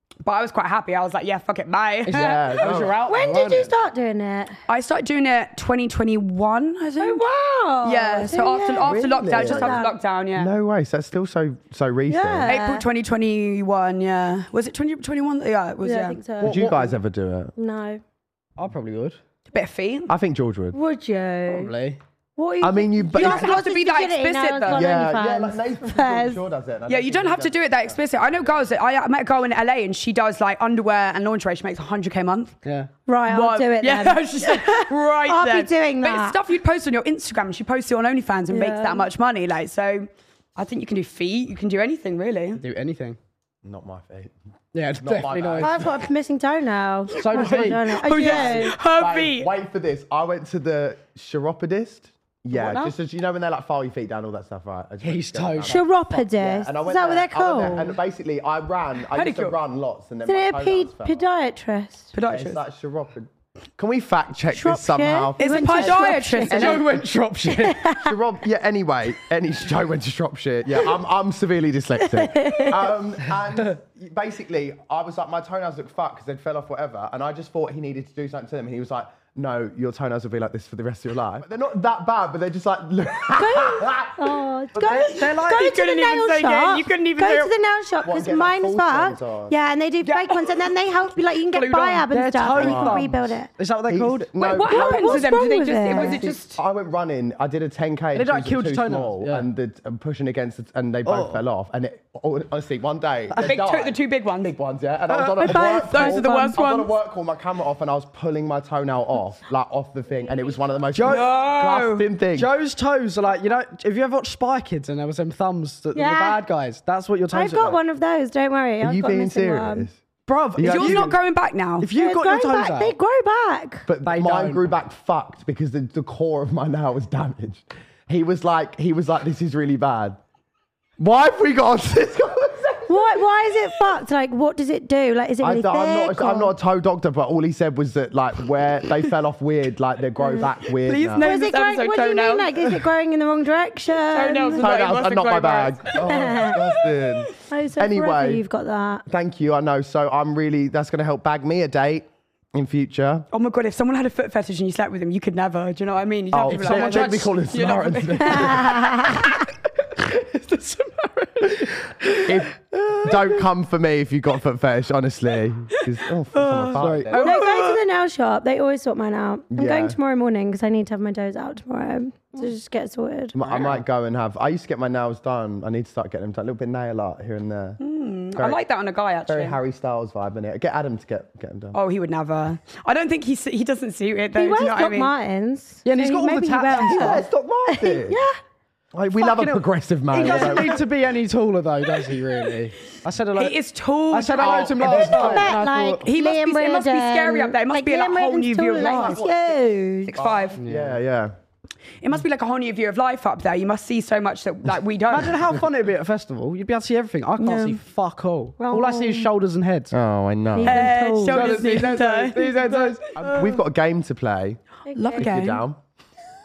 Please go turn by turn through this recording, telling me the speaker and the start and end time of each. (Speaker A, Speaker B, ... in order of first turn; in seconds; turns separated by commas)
Speaker A: 0.2-3.2, Speaker B: 2.1-3.7, Speaker C: 2.1-3.0, Speaker D: 3.1-4.5, Speaker A: 4.7-7.2, Speaker D: 7.0-9.9, Speaker A: 7.8-10.5, Speaker C: 8.8-9.8, Speaker C: 10.3-12.5, Speaker D: 12.1-12.8, Speaker A: 12.5-16.2, Speaker D: 15.8-16.8, Speaker B: 16.4-16.9, Speaker C: 16.4-17.5, Speaker D: 17.6-18.0, Speaker B: 18.6-19.2, Speaker A: 19.5-20.1, Speaker C: 20.1-20.8, Speaker D: 20.7-21.7, Speaker B: 21.5-22.0, Speaker D: 22.4-26.4, Speaker C: 22.6-23.6, Speaker A: 23.1-24.9, Speaker C: 24.7-28.0, Speaker A: 26.9-32.5, Speaker B: 32.6-32.9, Speaker D: 33.1-36.4, Speaker A: 33.3-42.6, Speaker D: 38.5-39.1, Speaker B: 42.6-43.2, Speaker C: 43.6-44.3, Speaker B: 44.7-45.9, Speaker C: 45.0-45.9, Speaker D: 45.6-48.8, Speaker B: 47.2-48.0, Speaker A: 47.3-49.5, Speaker C: 48.2-61.2, Speaker A: 52.5-52.9, Speaker B: 55.0-55.9, Speaker D: 55.6-58.0, Speaker A: 59.1-59.6, Speaker D: 60.3-62.1, Speaker A: 62.1-62.6, Speaker C: 62.3-66.0, Speaker D: 64.5-66.8, Speaker A: 65.4-66.9, Speaker B: 66.5-67.9, Speaker D: 67.5-68.2, Speaker C: 68.0-84.3, Speaker D: 72.1-72.9, Speaker D: 83.3-93.5, Speaker B: 84.8-85.7, Speaker A: 84.9-87.5, Speaker C: 88.0-89.5, Speaker A: 90.0-90.7, Speaker A: 91.5-92.1, Speaker B: 92.1-94.4, Speaker C: 92.5-93.1, Speaker C: 93.9-95.3, Speaker A: 94.4-96.6, Speaker D: 94.6-96.2, Speaker C: 95.9-112.5, Speaker B: 98.2-99.5, Speaker B: 101.1-101.4, Speaker A: 103.4-104.6, Speaker B: 105.1-105.7, Speaker D: 105.4-106.6, Speaker A: 105.5-106.9, Speaker B: 110.9-111.3, Speaker A: 111.0-112.1, Speaker B: 112.3-117.8, Speaker D: 115.9-116.4, Speaker D: 117.3-119.9, Speaker C: 118.8-120.0, Speaker B: 120.3-121.2, Speaker C: 120.5-121.2, Speaker A: 120.6-121.9, Speaker B: 121.8-122.9, Speaker D: 121.9-123.9, Speaker C: 123.9-130.2, Speaker B: 124.0-124.7, Speaker C: 131.0-133.2, Speaker D: 132.9-136.5, Speaker C: 135.4-141.3, Speaker A: 140.4-142.8, Speaker D: 141.2-144.7, Speaker A: 144.0-146.4, Speaker C: 144.6-148.4, Speaker D: 146.0-146.6, Speaker D: 147.5-149.1, Speaker C: 149.1-153.3, Speaker A: 153.3-158.8, Speaker C: 156.3-158.9, Speaker B: 156.5-157.2, Speaker D: 158.2-159.3, Speaker B: 159.8-163.4, Speaker C: 162.2-167.4, Speaker A: 166.3-167.8, Speaker B: 166.8-167.2, Speaker D: 167.2-173.4, Speaker C: 169.5-170.0, Speaker C: 173.3-177.8, Speaker B: 173.4-173.8, Speaker A: 177.8-179.6, Speaker C: 179.3-181.8, Speaker A: 181.7-185.1, Speaker D: 184.3-188.4, Speaker B: 185.8-187.3, Speaker C: 186.9-188.2, Speaker C: 188.9-190.8, Speaker B: 189.2-193.6, Speaker A: 190.2-190.8, Speaker A: 192.0-192.3, Speaker A: 193.3-195.5, Speaker B: 194.1-196.1, Speaker C: 194.4-195.5, Speaker D: 194.9-200.2, Speaker A: 196.0-199.3, Speaker C: 198.8-199.6, Speaker A: 200.1-200.6, Speaker C: 200.1-201.3, Speaker B: 200.6-201.0, Speaker A: 202.0-205.4, Speaker B: 205.1-209.9, Speaker D: 207.4-207.8, Speaker D: 208.6-209.3, Speaker C: 209.9-210.8, Speaker D: 210.6-211.7, Speaker A: 210.6-213.6, Speaker B: 211.2-213.1, Speaker C: 213.2-214.6, Speaker D: 214.9-215.3, Speaker A: 214.9-215.6, Speaker C: 215.2-215.8